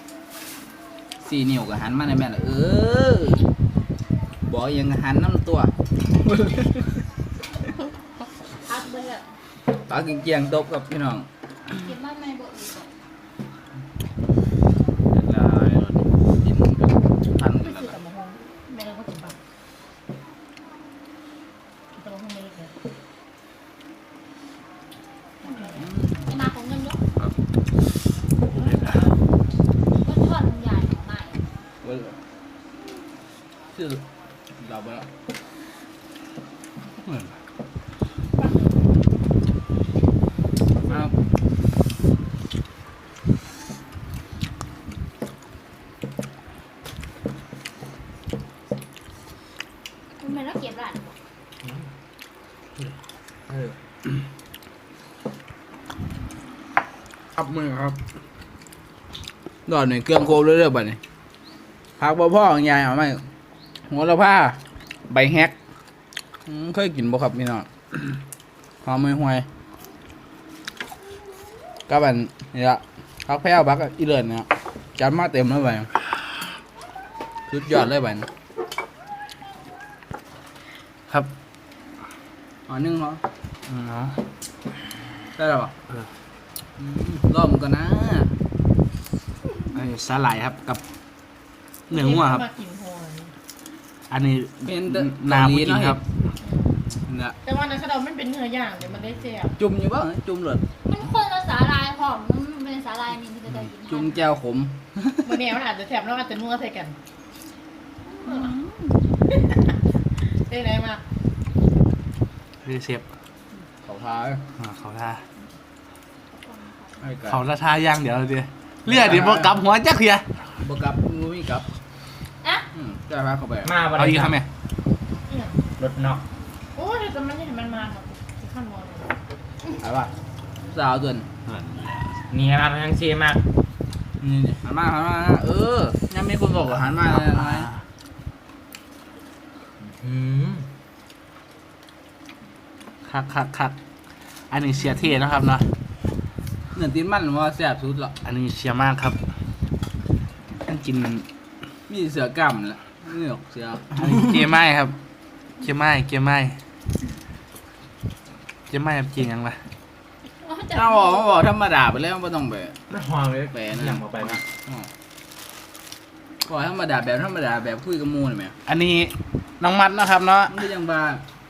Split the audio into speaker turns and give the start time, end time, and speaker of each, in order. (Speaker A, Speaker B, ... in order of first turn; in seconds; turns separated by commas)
Speaker A: 1.2-3.5, Speaker A: 4.5-5.7, Speaker A: 6.2-7.0, Speaker B: 8.6-9.3, Speaker A: 9.8-11.3, Speaker B: 11.7-12.9, Speaker A: 15.1-18.0, Speaker C: 17.7-19.4, Speaker C: 21.9-22.7, Speaker C: 25.4-25.8, Speaker A: 25.7-26.3, Speaker B: 26.2-27.0, Speaker B: 30.0-31.4, Speaker A: 31.8-32.2, Speaker A: 33.7-34.0, Speaker A: 34.5-35.1, Speaker D: 37.0-37.3, Speaker C: 38.4-38.8, Speaker A: 40.8-41.1, Speaker B: 50.2-51.0, Speaker E: 53.5-53.8, Speaker D: 57.4-58.0, Speaker A: 59.7-61.0, Speaker A: 62.0-63.3, Speaker A: 63.9-65.5, Speaker A: 66.5-67.7, Speaker A: 68.8-69.5, Speaker A: 71.9-75.9, Speaker A: 77.5-78.3, Speaker A: 82.7-83.2, Speaker D: 83.7-84.2, Speaker A: 85.4-85.7, Speaker A: 86.8-88.4, Speaker D: 89.7-90.8, Speaker D: 91.9-92.4, Speaker C: 91.9-93.3, Speaker D: 94.1-96.0, Speaker A: 94.6-96.0, Speaker C: 96.4-96.7, Speaker A: 97.1-97.4, Speaker C: 97.4-99.5, Speaker A: 99.6-100.6, Speaker B: 100.9-104.1, Speaker A: 103.9-105.3, Speaker C: 105.2-107.0, Speaker B: 108.3-109.0, Speaker C: 109.3-111.0, Speaker D: 112.7-113.0, Speaker A: 113.8-114.4, Speaker D: 114.6-115.2, Speaker B: 116.3-117.0, Speaker A: 117.0-117.4, Speaker D: 117.3-120.3, Speaker A: 118.9-119.5, Speaker A: 120.6-121.7, Speaker A: 122.7-123.7, Speaker E: 123.6-124.4, Speaker D: 123.9-124.5, Speaker C: 125.3-125.6, Speaker E: 125.8-126.2, Speaker C: 126.8-129.1, Speaker A: 129.8-130.1, Speaker A: 130.7-131.3, Speaker E: 132.3-133.4, Speaker A: 134.2-137.7, Speaker E: 139.8-140.7, Speaker D: 143.1-143.8, Speaker D: 144.5-145.7, Speaker A: 146.7-148.2, Speaker D: 148.2-149.2, Speaker D: 150.7-151.3, Speaker A: 151.9-154.3, Speaker D: 154.0-155.0, Speaker D: 155.6-156.6, Speaker D: 158.7-159.6, Speaker B: 160.4-161.4, Speaker A: 160.7-162.8, Speaker E: 162.9-164.4, Speaker A: 163.5-164.9, Speaker A: 166.5-168.6, Speaker D: 168.7-170.6, Speaker A: 170.5-171.2